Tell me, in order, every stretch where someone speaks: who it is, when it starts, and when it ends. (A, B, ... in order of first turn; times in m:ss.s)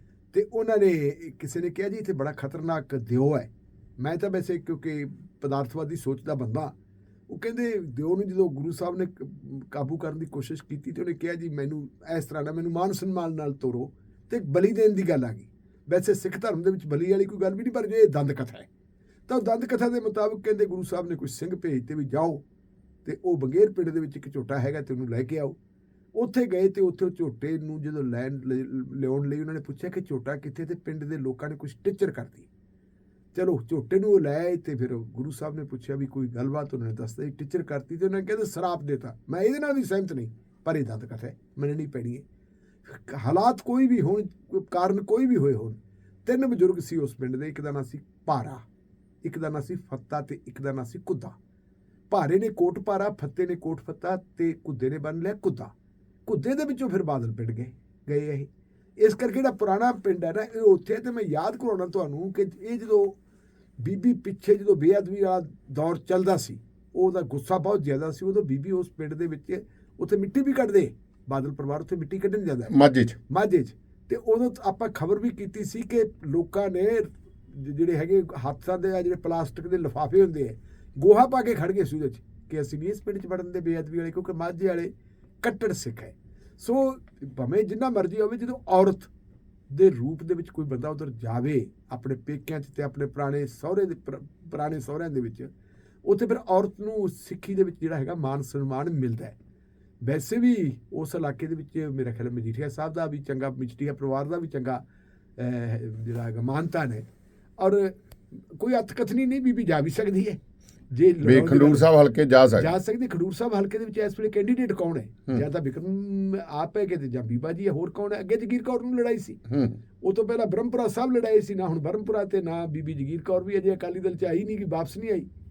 0:00.3-0:06.7 A
0:07.3-0:18.7 A
0:19.3-0:22.4 A
0:23.0-0:25.6 A
0:26.1-0:32.5 A
0:33.3-0:42.2 A
0:42.8-0:48.6 A
0:49.2-0:51.4 A
0:52.1-0:55.7 A
0:56.2-1:03.2 A
1:03.8-1:12.8 A
1:12.7-1:13.2 B
1:13.3-1:24.9 A
1:25.4-1:29.1 A
1:29.7-1:35.5 A
1:36.0-1:39.4 A
1:40.0-1:44.8 A
1:45.4-1:50.4 A
1:50.9-1:51.9 A
1:51.2-1:52.7 B
1:52.5-1:59.5 A
1:59.5-1:59.8 B
2:00.0-2:05.3 A